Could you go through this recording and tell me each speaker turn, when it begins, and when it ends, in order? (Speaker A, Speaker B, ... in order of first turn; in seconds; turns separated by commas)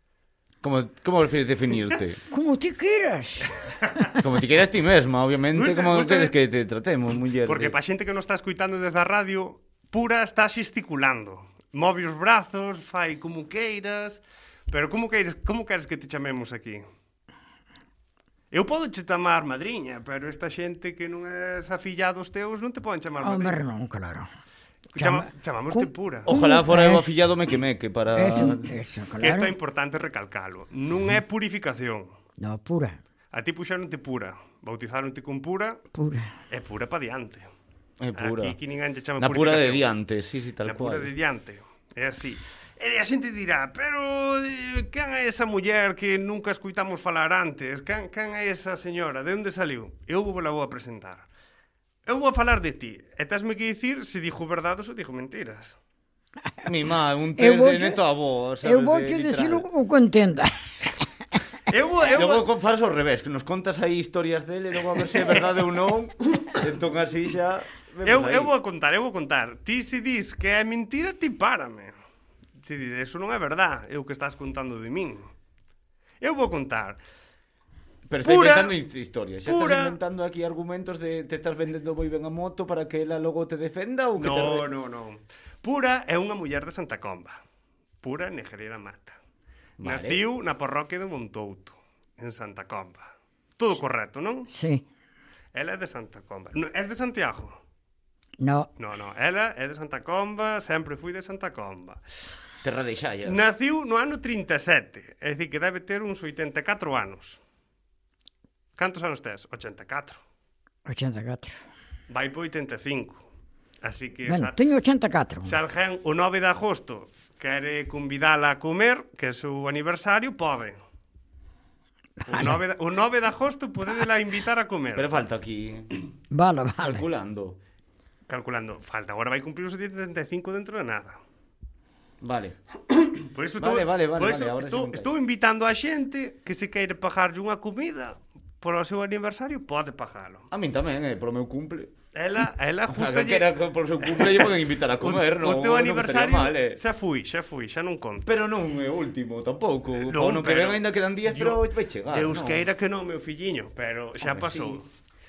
Speaker A: 0.6-2.2, Speaker B: 2.3-3.6, Speaker A: 4.1-7.8, Speaker C: 5.5-6.3, Speaker C: 7.3-16.8, Speaker C: 18.5-23.6, Speaker B: 23.2-24.2, Speaker C: 24.9-26.3, Speaker B: 25.0-27.1, Speaker A: 26.2-28.7, Speaker B: 28.1-29.5, Speaker C: 29.2-32.1, Speaker B: 32.4-33.0, Speaker C: 33.3-35.8, Speaker B: 35.9-36.3, Speaker C: 36.5-37.4, Speaker A: 38.0-38.5, Speaker C: 38.2-39.9, Speaker A: 39.2-41.1, Speaker C: 40.6-51.3, Speaker C: 52.0-55.8, Speaker A: 56.6-59.7, Speaker B: 57.4-58.0, Speaker B: 58.6-60.5, Speaker C: 61.7-62.5, Speaker A: 62.0-68.5, Speaker C: 68.0-71.9, Speaker C: 72.6-75.3, Speaker C: 76.2-77.0, Speaker A: 78.1-84.7, Speaker C: 78.2-78.7, Speaker C: 79.4-80.0, Speaker C: 84.2-87.4, Speaker C: 88.0-89.2, Speaker A: 89.8-90.2, Speaker C: 89.8-94.5, Speaker B: 94.5-94.8, Speaker C: 95.5-97.6, Speaker B: 98.4-98.7, Speaker C: 98.8-102.0, Speaker A: 102.6-103.4, Speaker C: 103.2-107.4, Speaker C: 108.8-110.2, Speaker B: 110.8-111.5, Speaker C: 112.1-113.2, Speaker C: 113.8-114.5, Speaker B: 114.3-115.5, Speaker C: 115.4-120.8, Speaker B: 122.2-122.6, Speaker C: 122.3-125.2, Speaker A: 124.9-125.9, Speaker B: 126.3-127.1, Speaker A: 126.8-127.6, Speaker C: 128.3-131.2, Speaker A: 132.2-132.6, Speaker C: 132.9-140.5, Speaker A: 133.6-135.1, Speaker A: 140.5-141.9, Speaker C: 142.2-148.3, Speaker A: 142.9-146.8, Speaker A: 148.2-152.7, Speaker C: 150.0-154.8, Speaker A: 154.2-154.8